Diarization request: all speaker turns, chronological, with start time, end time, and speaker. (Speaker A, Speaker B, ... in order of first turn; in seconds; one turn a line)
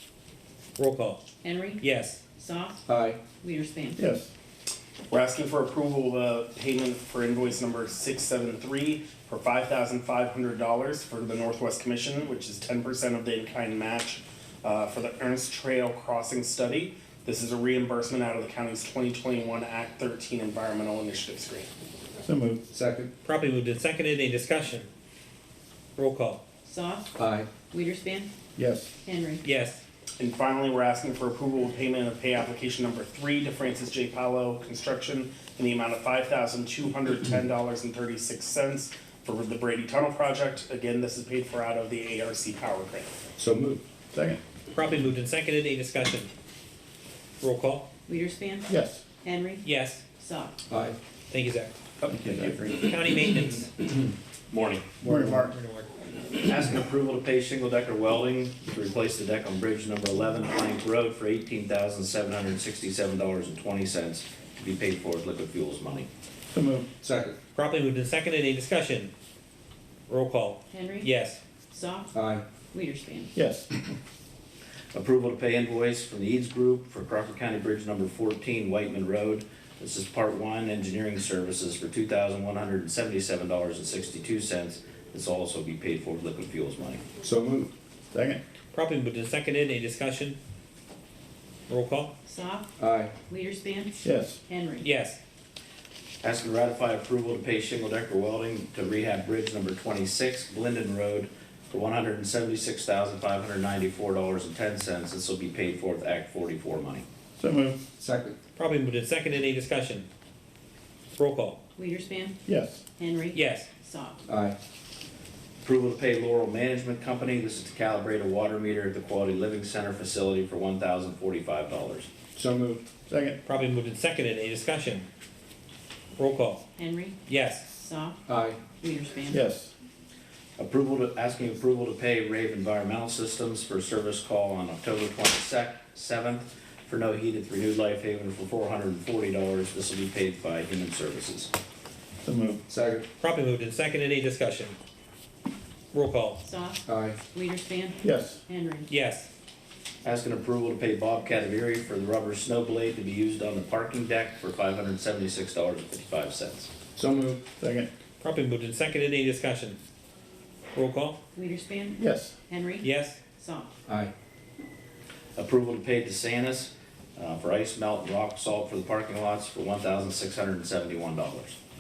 Speaker A: 0.8-1.3
Speaker B: 1.4-4.0
Speaker A: 1.8-2.2
Speaker C: 2.9-3.2
Speaker D: 4.0-4.3
Speaker E: 5.1-21.7
Speaker D: 22.2-22.6
Speaker C: 22.7-23.1
Speaker A: 23.2-24.9
Speaker A: 26.0-26.4
Speaker B: 26.6-28.3
Speaker C: 27.1-27.5
Speaker D: 28.6-28.9
Speaker B: 29.0-29.4
Speaker A: 29.4-29.8
Speaker E: 30.2-43.1
Speaker C: 43.4-43.8
Speaker D: 44.1-44.4
Speaker A: 44.7-46.3
Speaker A: 47.4-47.9
Speaker B: 48.1-50.6
Speaker D: 48.7-49.0
Speaker A: 49.6-50.0
Speaker C: 50.7-51.0
Speaker A: 51.3-51.7
Speaker F: 52.0-52.8
Speaker D: 52.1-52.5
Speaker A: 52.7-53.7
Speaker F: 54.5-55.3
Speaker D: 55.0-55.5
Speaker A: 55.3-55.9
Speaker F: 56.3-66.1
Speaker D: 66.5-66.9
Speaker C: 67.0-67.4
Speaker A: 67.5-69.1
Speaker A: 70.1-71.4
Speaker B: 70.7-71.1
Speaker B: 71.7-73.3
Speaker C: 72.1-72.5
Speaker D: 73.3-73.7
Speaker F: 74.9-87.0
Speaker C: 87.2-87.7
Speaker D: 88.1-88.4
Speaker A: 88.7-90.4
Speaker A: 91.7-92.1
Speaker B: 92.2-92.7
Speaker C: 92.8-93.1
Speaker B: 93.3-94.9
Speaker D: 94.0-94.4
Speaker A: 94.8-95.2
Speaker F: 96.2-107.0
Speaker D: 107.4-107.8
Speaker C: 108.0-108.4
Speaker A: 108.6-110.1
Speaker A: 111.2-111.6
Speaker B: 111.8-112.4
Speaker D: 112.5-112.8
Speaker B: 113.0-114.2
Speaker A: 113.3-113.7
Speaker C: 114.3-114.6
Speaker F: 115.6-122.1
Speaker C: 122.3-122.8
Speaker D: 123.1-123.4
Speaker A: 123.5-125.1
Speaker A: 126.2-126.7
Speaker B: 126.8-129.4
Speaker A: 127.3-127.7
Speaker C: 128.3-128.6
Speaker D: 129.3-129.7
Speaker F: 130.6-141.5
Speaker D: 142.2-142.6
Speaker C: 142.7-143.1
Speaker A: 143.2-144.8
Speaker A: 145.9-146.4
Speaker B: 146.4-148.9
Speaker C: 146.8-147.2
Speaker D: 148.0-148.4
Speaker A: 148.9-149.3
Speaker F: 150.0-156.7
Speaker C: 156.9-157.4
Speaker D: 157.6-157.9
Speaker A: 158.2-159.8
Speaker A: 160.7-161.2
Speaker B: 161.3-163.7
Speaker D: 162.0-162.3
Speaker A: 162.8-163.2
Speaker C: 163.9-164.1
Speaker F: 165.4-171.6